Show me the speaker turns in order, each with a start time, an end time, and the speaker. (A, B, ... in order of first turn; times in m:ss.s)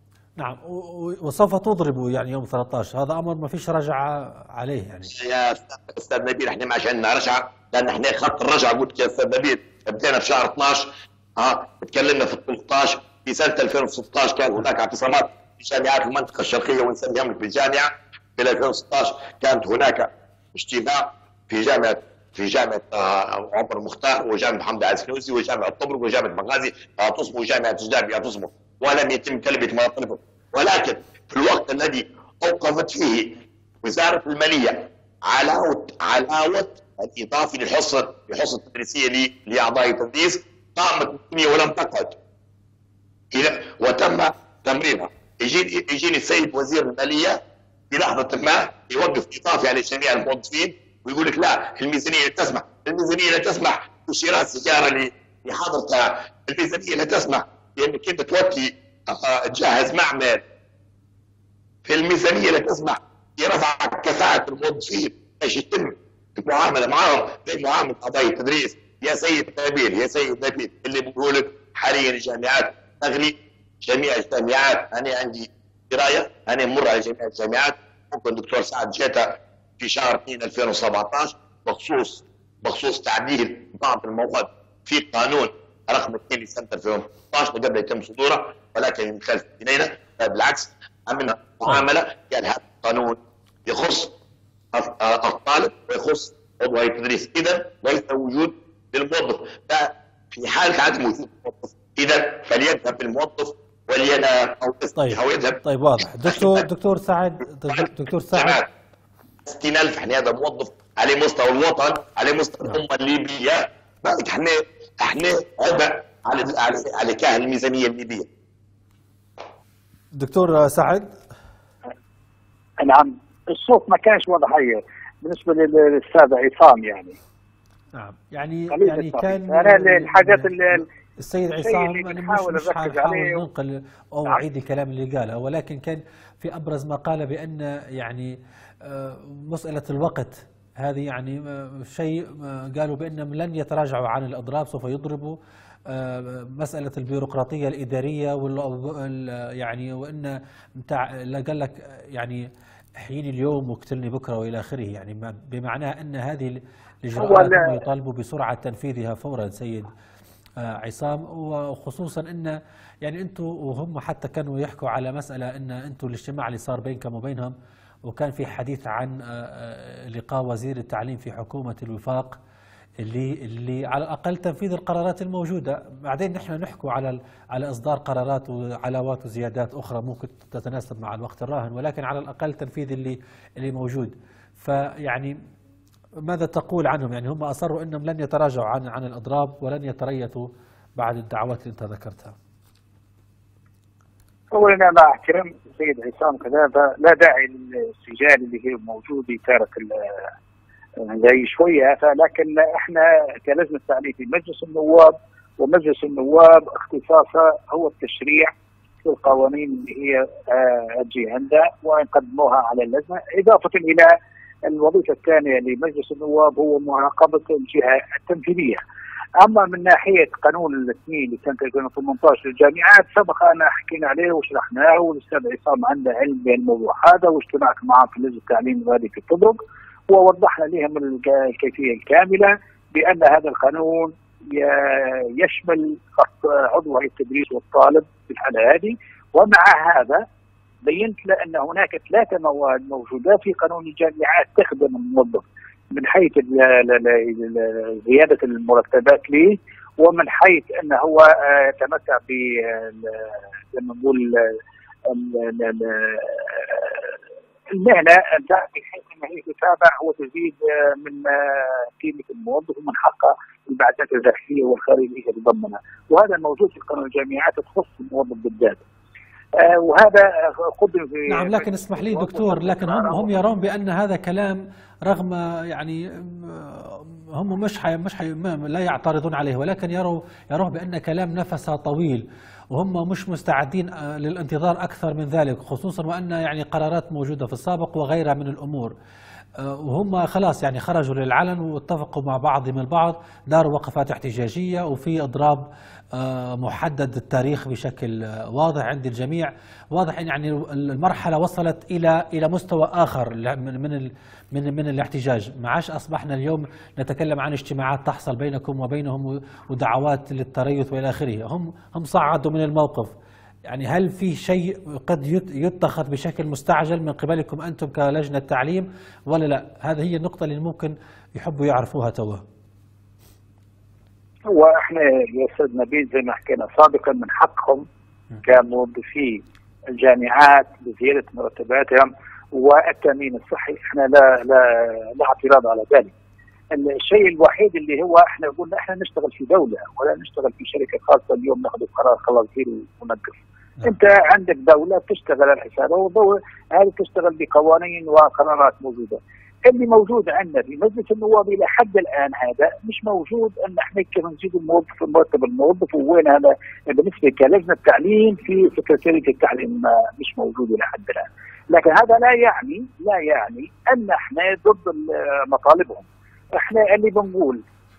0:00.4-0:05.1 A
0:05.1-0:42.2 B
0:43.3-0:47.4 B
0:47.9-1:00.4 B
1:01.9-1:34.2 B
1:34.7-1:45.6 B
1:45.0-1:48.6 A
1:46.2-1:46.6 B
1:47.7-1:48.7 B
1:49.5-1:58.3 B
2:00.1-2:01.2 A
2:02.8-2:07.2 C
2:08.0-2:25.4 A
2:08.7-2:10.8 C
2:11.5-2:13.4 C
2:25.9-2:39.9 A
2:37.2-2:37.8 C
2:40.6-2:47.6 A
2:48.1-2:52.4 A
2:53.0-3:05.4 A
3:06.2-3:12.4 A
3:14.5-3:20.3 C
3:21.0-3:28.5 C
3:29.0-3:34.1 C
3:34.6-3:38.8 C
3:39.4-4:00.2 C
4:00.9-4:14.6 C
4:15.1-4:17.1 C
4:17.7-4:28.8 C
4:29.6-4:33.4 C
4:31.3-4:48.9 A
4:49.6-5:13.1 A
5:13.7-5:22.4 A
5:24.5-5:27.9 C
5:28.4-5:29.4 C
5:30.0-5:36.1 C
5:36.8-6:07.6 C